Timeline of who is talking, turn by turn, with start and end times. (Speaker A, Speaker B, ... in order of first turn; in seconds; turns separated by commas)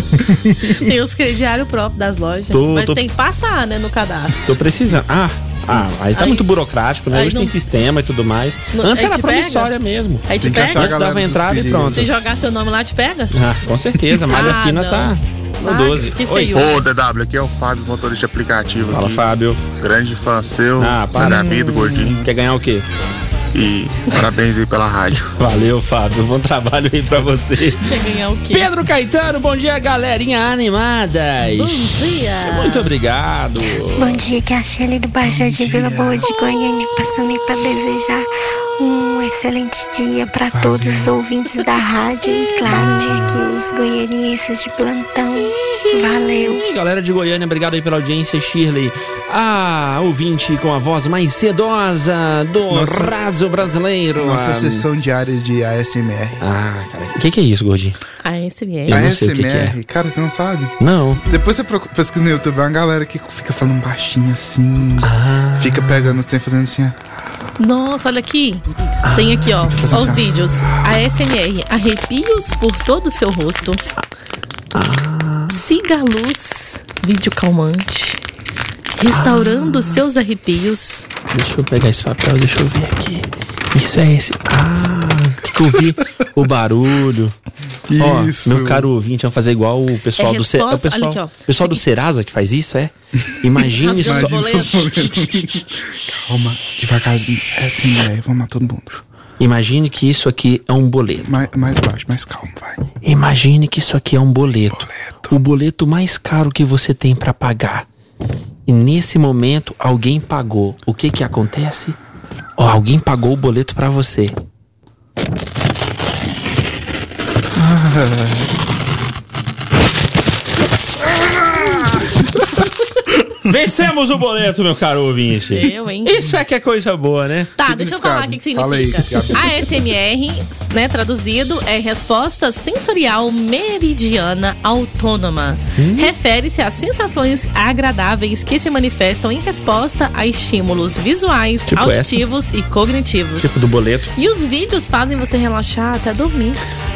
Speaker A: 0.7-4.5, Speaker B: 2.5-3.0, Speaker B: 4.5-12.1, Speaker A: 6.2-6.5, Speaker A: 7.1-7.5, Speaker A: 8.7-9.7, Speaker A: 10.3-10.9, Speaker C: 10.4-12.1, Speaker A: 11.9-13.3, Speaker B: 13.3-16.6, Speaker A: 14.3-16.8, Speaker D: 16.5-22.2, Speaker B: 18.9-19.6, Speaker B: 20.8-22.9, Speaker C: 21.2-22.2, Speaker D: 23.5-25.3, Speaker B: 25.4-27.9, Speaker A: 27.8-28.7, Speaker B: 28.5-34.2, Speaker A: 31.5-32.9, Speaker E: 34.0-46.6, Speaker C: 35.2-36.3, Speaker C: 40.5-41.1, Speaker C: 42.7-43.3, Speaker B: 46.4-54.9, Speaker C: 52.7-53.1, Speaker C: 54.2-56.4, Speaker B: 56.4-58.0, Speaker A: 58.2-59.0, Speaker B: 58.9-59.8, Speaker C: 58.9-60.7, Speaker B: 60.8-61.2, Speaker C: 61.3-67.0, Speaker B: 65.0-66.2, Speaker A: 67.6-73.8, Speaker B: 69.0-71.3, Speaker C: 69.8-70.3, Speaker B: 74.7-75.6, Speaker A: 75.5-78.2, Speaker A: 79.0-81.1, Speaker B: 79.1-80.0, Speaker B: 81.3-87.3, Speaker C: 87.9-88.9, Speaker B: 88.0-95.2, Speaker A: 90.2-91.8, Speaker A: 93.8-95.1, Speaker C: 94.0-99.0, Speaker B: 99.4-101.3, Speaker C: 101.2-102.9, Speaker B: 103.0-107.9, Speaker C: 104.7-105.4, Speaker B: 108.7-112.0, Speaker B: 112.6-114.3, Speaker C: 117.6-118.5, Speaker C: 121.6-122.0, Speaker B: 121.6-122.1, Speaker B: 123.4-127.5, Speaker A: 125.5-126.2, Speaker A: 127.6-143.5, Speaker C: 127.6-129.6, Speaker B: 135.8-136.1, Speaker B: 141.7-142.2, Speaker B: 143.4-144.1, Speaker A: 144.2-146.6